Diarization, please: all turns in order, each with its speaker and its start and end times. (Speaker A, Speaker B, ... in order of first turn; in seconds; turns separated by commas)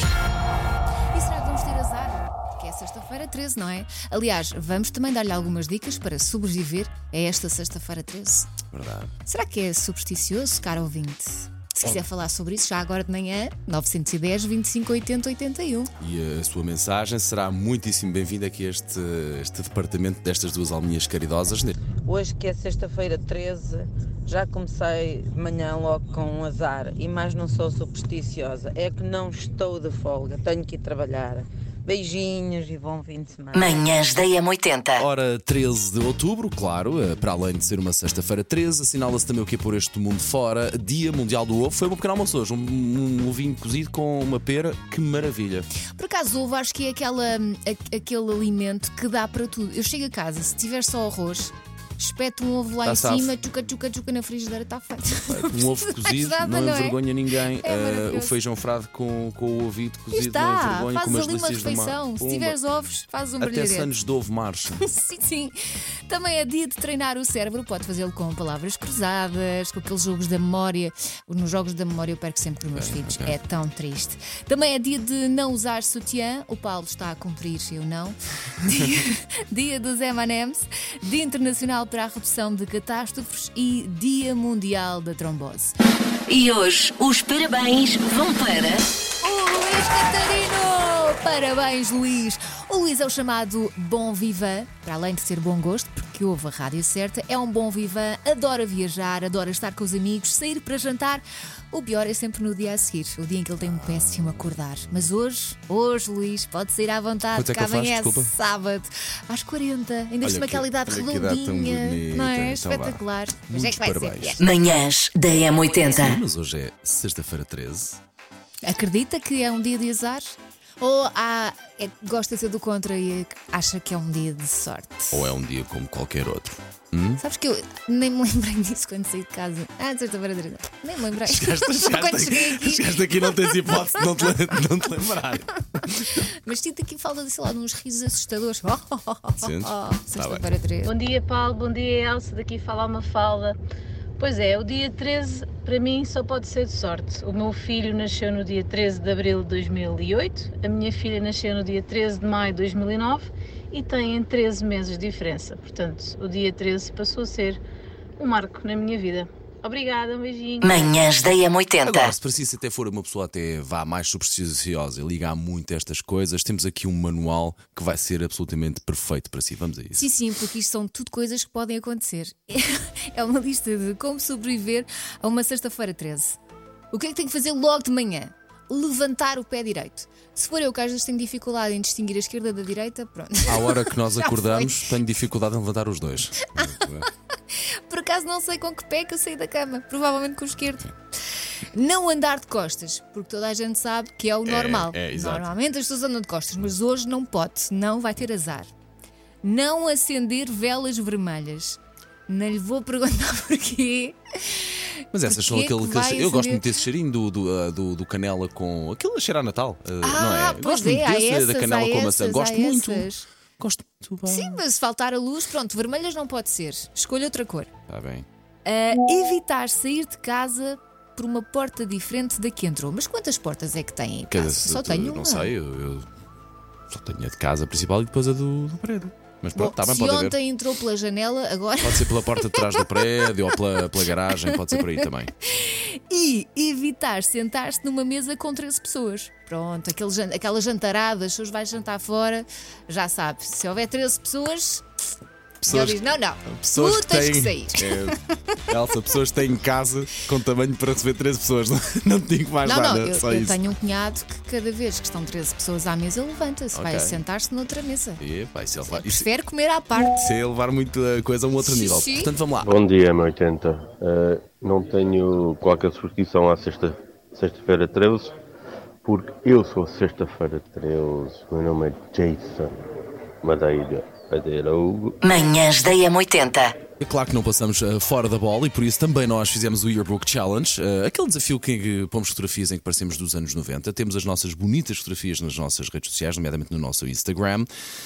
Speaker A: 1.1-8.5, Speaker B: 8.7-9.1, Speaker A: 9.2-15.9, Speaker B: 16.0-21.8, Speaker C: 22.0-33.9, Speaker D: 33.5-35.0, Speaker B: 34.9-45.7, Speaker A: 46.0-57.1, Speaker B: 52.8-53.3, Speaker B: 55.3-62.6, Speaker A: 57.6-58.3, Speaker A: 60.1-63.9, Speaker B: 63.4-64.8, Speaker A: 64.8-65.5, Speaker A: 66.1-85.7, Speaker B: 72.7-73.4, Speaker D: 86.3-88.8, Speaker A: 89.2-114.5, Speaker B: 103.6-104.5, Speaker B: 107.3-108.3, Speaker B: 110.2-114.4, Speaker D: 114.4-116.2, Speaker B: 115.6-118.0, Speaker A: 118.6-125.2, Speaker B: 125.1-127.2, Speaker A: 127.2-132.9, Speaker B: 131.2-136.2, Speaker A: 136.2-140.9, Speaker B: 139.4-140.5, Speaker E: 140.8-143.6, Speaker E: 144.2-157.6, Speaker E: 158.2-161.0, Speaker D: 160.6-162.1, Speaker B: 161.8-170.1, Speaker A: 169.9-176.4, Speaker A: 176.9-184.9, Speaker B: 183.5-187.0, Speaker A: 186.4-187.0, Speaker A: 187.9-190.9, Speaker A: 191.7-198.7, Speaker B: 194.4-195.5, Speaker A: 199.4-206.8, Speaker B: 205.1-214.6, Speaker A: 210.0-213.3, Speaker A: 214.3-217.7, Speaker B: 217.9-218.2, Speaker A: 218.6-225.5, Speaker B: 224.3-226.1, Speaker B: 226.9-230.4, Speaker A: 229.5-232.8, Speaker B: 231.8-235.3, Speaker A: 235.5-244.8, Speaker B: 245.6-248.1, Speaker A: 245.7-248.6, Speaker B: 248.7-253.6, Speaker A: 252.6-258.2, Speaker B: 256.7-257.2, Speaker B: 258.2-259.3, Speaker A: 258.9-260.2, Speaker B: 260.1-262.7, Speaker A: 261.6-262.3, Speaker F: 262.6-268.3, Speaker F: 269.0-272.8, Speaker F: 273.4-275.2, Speaker D: 275.2-276.7, Speaker B: 277.0-287.7